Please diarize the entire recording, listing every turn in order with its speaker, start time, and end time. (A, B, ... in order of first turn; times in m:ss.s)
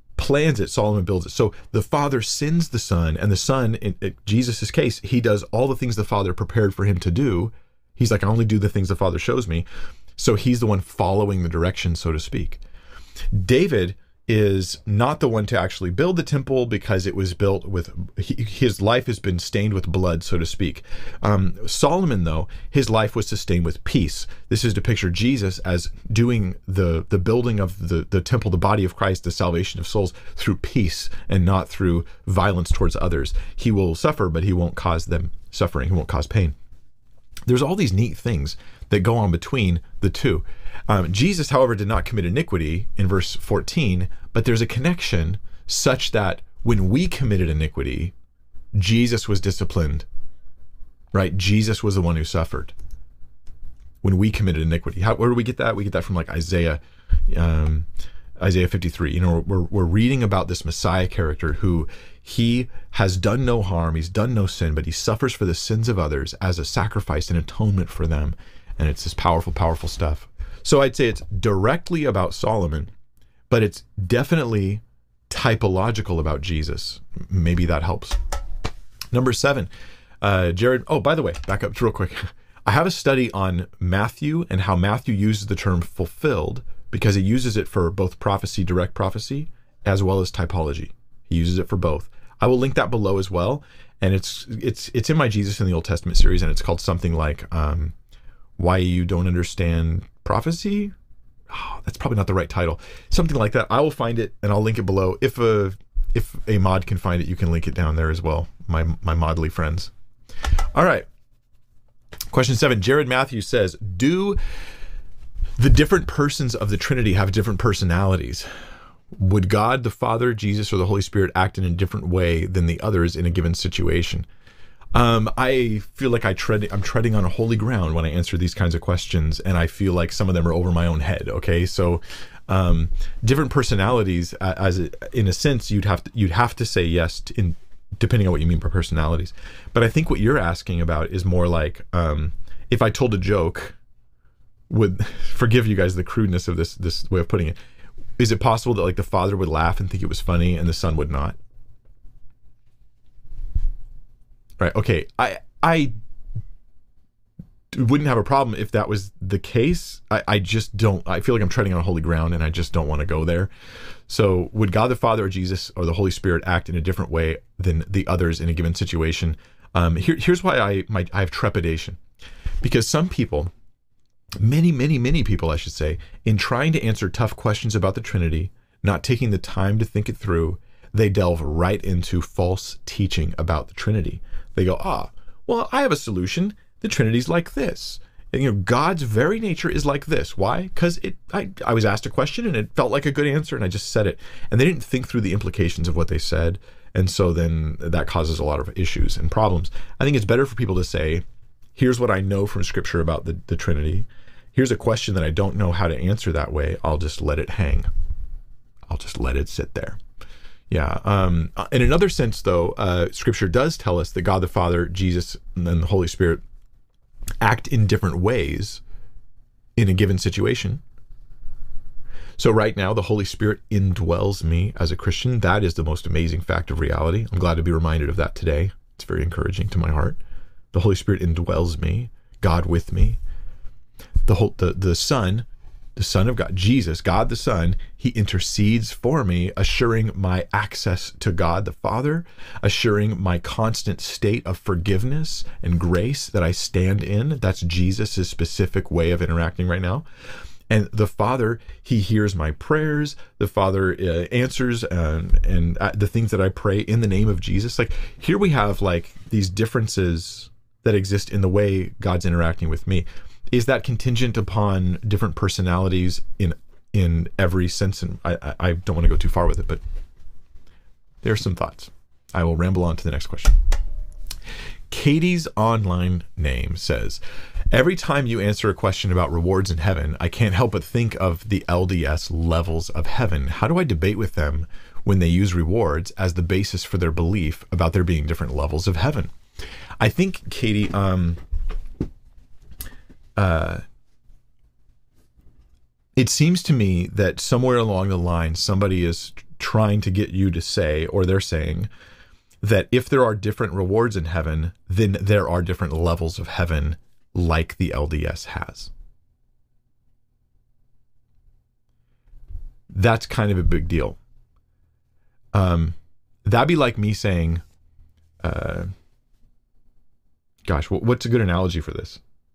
0:00.2-0:09.7 A
0:10.2-0:12.6 A
0:13.3-0:36.6 A
0:37.5-0:48.1 A
0:48.7-0:50.1 A
0:51.1-0:52.7 A
0:54.0-0:57.9 A
0:58.4-1:12.9 A
1:13.5-1:18.2 A
1:19.1-1:19.7 A
1:20.2-1:37.9 A
1:38.6-1:40.9 A
1:41.5-1:49.9 A
1:50.7-1:51.1 A
1:52.3-1:54.4 A
1:55.6-1:58.5 A
1:59.1-2:04.3 A
2:04.9-2:23.8 A
2:24.7-2:27.6 A
2:28.2-2:31.4 A
2:34.6-2:35.9 A
2:37.7-2:43.5 A
2:44.1-2:52.0 A
2:52.6-2:53.5 A
2:54.4-3:21.2 A
3:21.8-3:27.9 A
3:28.9-3:30.0 A
3:30.7-3:36.4 A
3:37.4-3:38.8 A
3:39.8-3:40.8 A
3:42.4-3:50.2 A
3:50.7-3:53.2 A
3:54.3-4:10.1 A
4:10.7-4:29.8 A
4:31.2-4:33.6 A
4:34.9-4:37.2 A
4:37.7-4:49.3 A
4:50.0-4:51.4 A
4:53.4-4:53.8 A
4:56.2-5:01.9 A
5:02.6-5:08.9 A
5:12.9-5:14.2 A
5:15.5-5:17.6 A
5:18.4-5:18.9 A
5:20.6-5:22.2 A